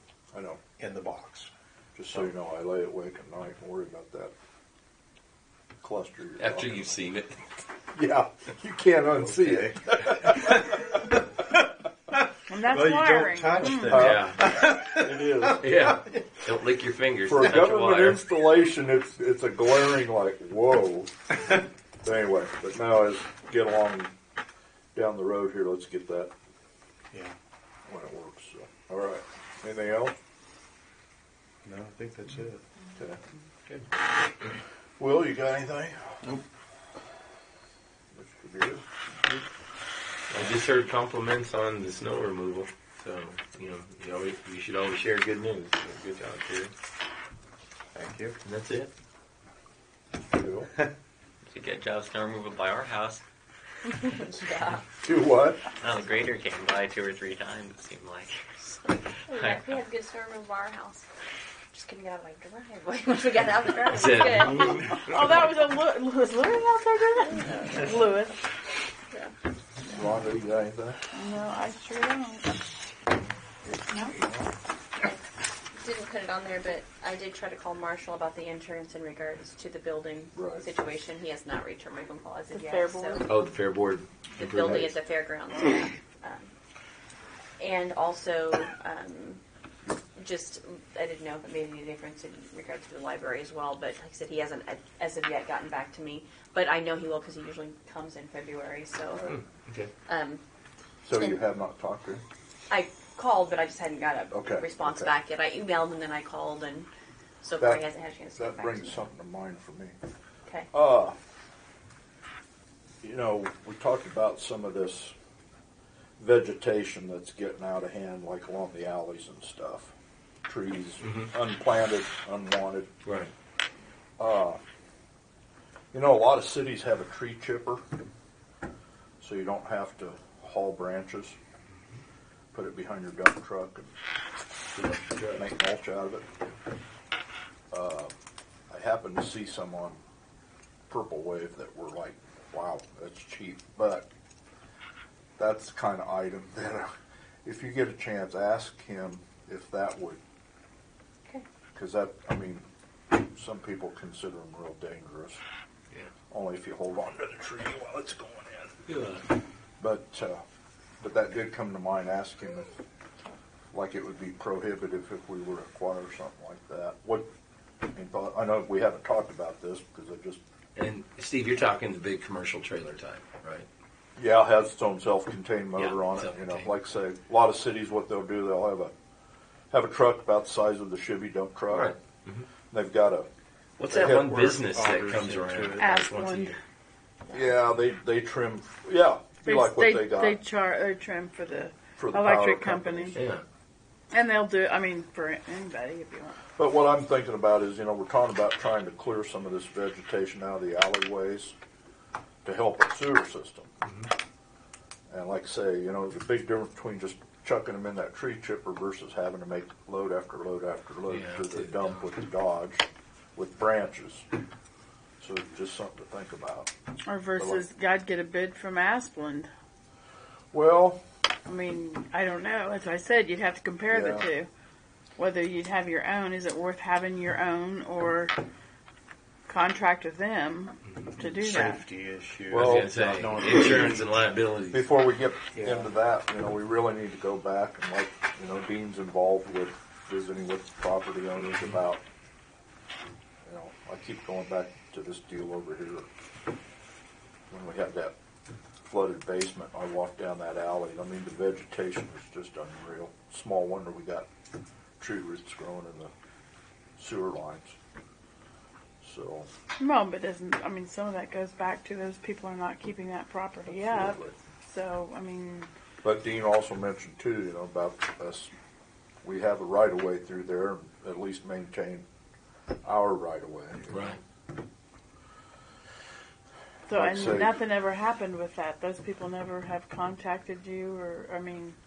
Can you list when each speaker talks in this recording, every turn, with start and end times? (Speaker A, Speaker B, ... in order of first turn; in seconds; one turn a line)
Speaker A: 0.3-0.6
Speaker B: 0.8-1.5
Speaker A: 1.9-4.3
Speaker A: 5.8-6.9
Speaker C: 6.4-7.4
Speaker A: 7.9-10.6
Speaker B: 9.2-10.9
Speaker D: 12.5-14.1
Speaker B: 12.7-16.3
Speaker A: 13.8-15.7
Speaker C: 13.9-14.4
Speaker C: 15.6-18.2
Speaker A: 17.2-21.1
Speaker A: 22.0-24.1
Speaker A: 24.9-26.3
Speaker A: 27.9-30.1
Speaker B: 31.6-32.6
Speaker A: 35.0-36.1
Speaker A: 38.1-38.8
Speaker C: 40.3-46.7
Speaker B: 47.9-48.4
Speaker C: 48.4-48.9
Speaker A: 50.3-50.7
Speaker E: 51.5-53.2
Speaker F: 53.9-54.8
Speaker A: 55.0-55.5
Speaker B: 55.0-55.6
Speaker E: 55.8-58.7
Speaker F: 58.9-61.1
Speaker E: 59.3-59.8
Speaker F: 61.7-65.2
Speaker C: 63.9-64.8
Speaker D: 64.8-68.4
Speaker F: 67.2-68.0
Speaker A: 69.9-71.0
Speaker D: 71.1-72.5
Speaker D: 73.9-74.2
Speaker A: 74.1-74.4
Speaker F: 75.8-83.2
Speaker A: 80.3-80.6
Speaker D: 82.5-83.3
Speaker C: 83.2-85.0
Speaker F: 84.4-86.5
Speaker F: 87.6-89.4
Speaker F: 90.2-99.2
Speaker C: 99.3-99.9
Speaker F: 100.1-100.4
Speaker A: 101.0-102.2
Speaker F: 102.7-106.9
Speaker A: 104.3-105.1
Speaker F: 107.4-109.1
Speaker A: 108.3-110.0
Speaker A: 110.7-111.2
Speaker A: 113.0-115.1
Speaker A: 116.2-119.9
Speaker A: 120.5-122.9
Speaker C: 121.0-121.3
Speaker C: 123.0-123.3
Speaker A: 124.2-124.6
Speaker A: 125.9-127.8
Speaker A: 129.2-131.4
Speaker A: 132.5-133.9
Speaker C: 134.7-135.5
Speaker A: 135.4-136.2
Speaker A: 137.7-138.1
Speaker A: 138.7-140.0
Speaker A: 140.9-144.1
Speaker A: 145.4-146.9
Speaker A: 147.4-150.2
Speaker A: 151.7-155.4
Speaker A: 156.3-158.8
Speaker C: 158.9-159.2
Speaker A: 159.8-160.4
Speaker A: 161.0-162.7
Speaker A: 163.7-167.3
Speaker A: 167.9-170.4
Speaker C: 170.8-173.7
Speaker A: 174.2-178.9
Speaker C: 175.8-176.7
Speaker A: 179.7-181.9
Speaker C: 181.7-182.5
Speaker A: 182.7-183.3
Speaker C: 183.8-186.6
Speaker A: 183.9-184.6
Speaker B: 184.7-185.8
Speaker D: 185.8-186.6
Speaker A: 187.3-190.4
Speaker D: 189.4-193.1
Speaker A: 192.0-193.1
Speaker C: 193.1-193.4
Speaker D: 194.1-196.4
Speaker A: 196.6-201.5
Speaker A: 202.4-203.7
Speaker C: 203.8-204.1
Speaker A: 205.1-212.8
Speaker C: 211.1-212.0
Speaker A: 213.3-214.2
Speaker A: 215.2-216.7
Speaker D: 217.0-219.5
Speaker A: 217.4-217.6
Speaker A: 220.5-221.0
Speaker D: 221.4-224.5
Speaker A: 223.9-224.3
Speaker D: 225.2-228.3
Speaker D: 229.5-231.8
Speaker B: 231.2-234.1
Speaker A: 232.5-233.3
Speaker C: 232.5-234.9
Speaker A: 234.7-242.0
Speaker B: 235.5-235.9
Speaker A: 243.4-246.1
Speaker A: 247.5-248.1
Speaker A: 248.9-254.3
Speaker A: 255.0-256.1
Speaker A: 257.0-257.8
Speaker A: 259.0-259.5
Speaker D: 259.8-265.7
Speaker A: 263.7-264.4
Speaker A: 266.0-268.5
Speaker A: 269.2-272.0
Speaker A: 272.8-274.2
Speaker C: 273.9-274.2
Speaker D: 276.9-281.8
Speaker A: 276.9-277.6